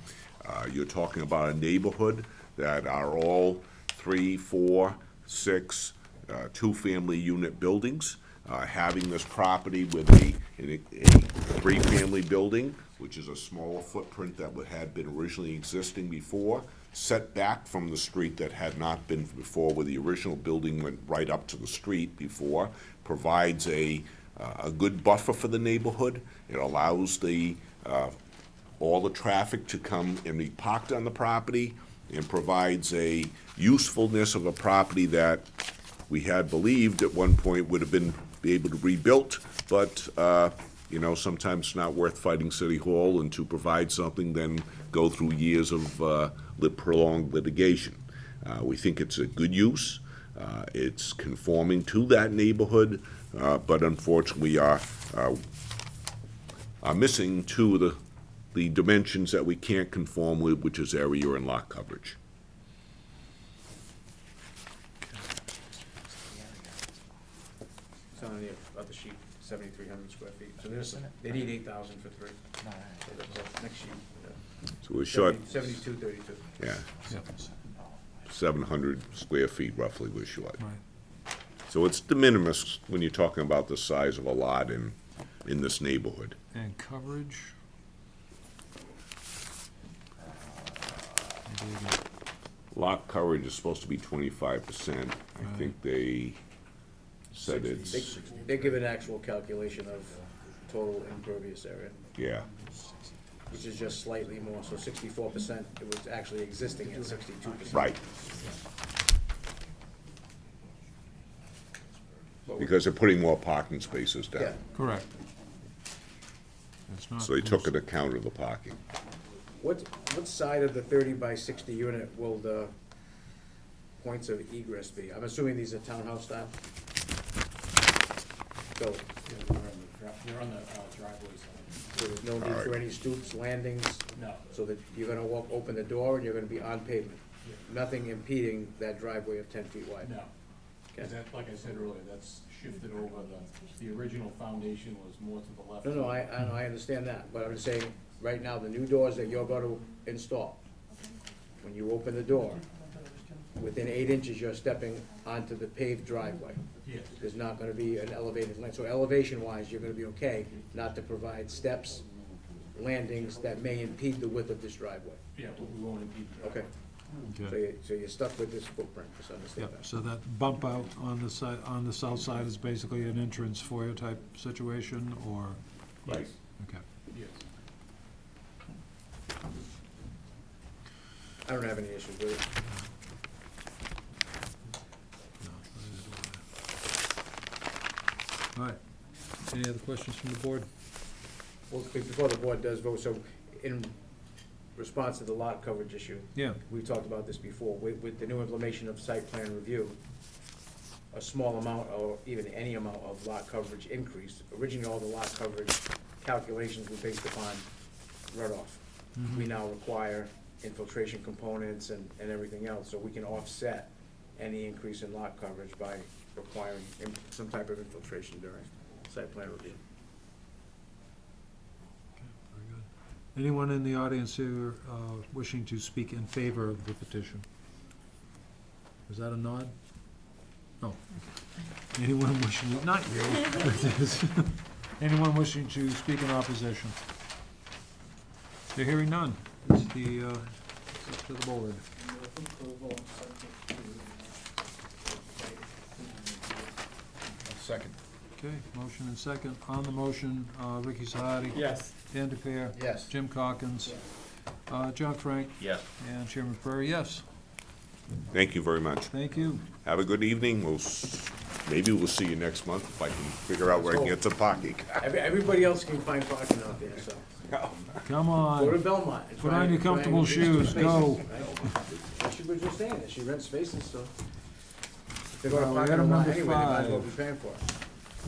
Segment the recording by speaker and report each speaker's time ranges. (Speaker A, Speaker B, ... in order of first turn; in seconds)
Speaker A: 0.4-28.2, 28.8-35.5, 36.1-55.4, 56.8-58.0, 58.5-62.2, 74.8-75.5, 76.6-76.9, 78.3-80.6, 81.7-86.4, 92.7-96.4, 97.3-98.2, 102.2-102.5, 107.7-108.0, 112.6-114.6, 117.2-118.8, 132.4-132.8, 258.3-259.1, 259.8-265.0, 267.5-267.9, 270.7-271.5
Speaker B: 68.1-72.4, 73.0-74.4, 75.0-76.6, 97.5-102.0, 103.5-108.0, 112.5-112.8, 119.6-122.7, 124.0-126.5, 128.8-129.1, 131.9-140.1, 145.8-150.6, 151.6-152.7, 153.6-156.6, 157.2-162.1, 162.7-165.2, 166.4-166.7, 167.4-169.8, 181.4-182.5, 191.7-194.0, 194.8-200.0, 201.1-207.7, 208.3-219.8, 247.4-248.0, 252.7-253.1, 263.7-264.2, 265.0-267.3, 268.6-274.1, 275.3-277.7
Speaker C: 86.5-87.5, 91.5-92.0, 95.4-95.7, 114.7-115.1, 116.9-117.7, 167.3-167.6, 169.6-175.6, 176.6-176.8, 185.4-186.4, 188.5-188.8, 189.5-190.7, 196.3-196.6, 209.2-209.5, 222.2-227.4, 229.1-229.7, 230.8-231.2, 231.8-237.0, 238.7-241.9, 248.4-254.0, 254.7-257.2, 259.1-259.7, 268.0-271.3, 275.4-277.1
Speaker D: 107.5-107.8, 129.2-132.2, 134.2-134.5, 140.0-140.3, 141.0-146.3, 156.8-157.2, 165.3-166.7, 176.0-176.4, 177.1-177.4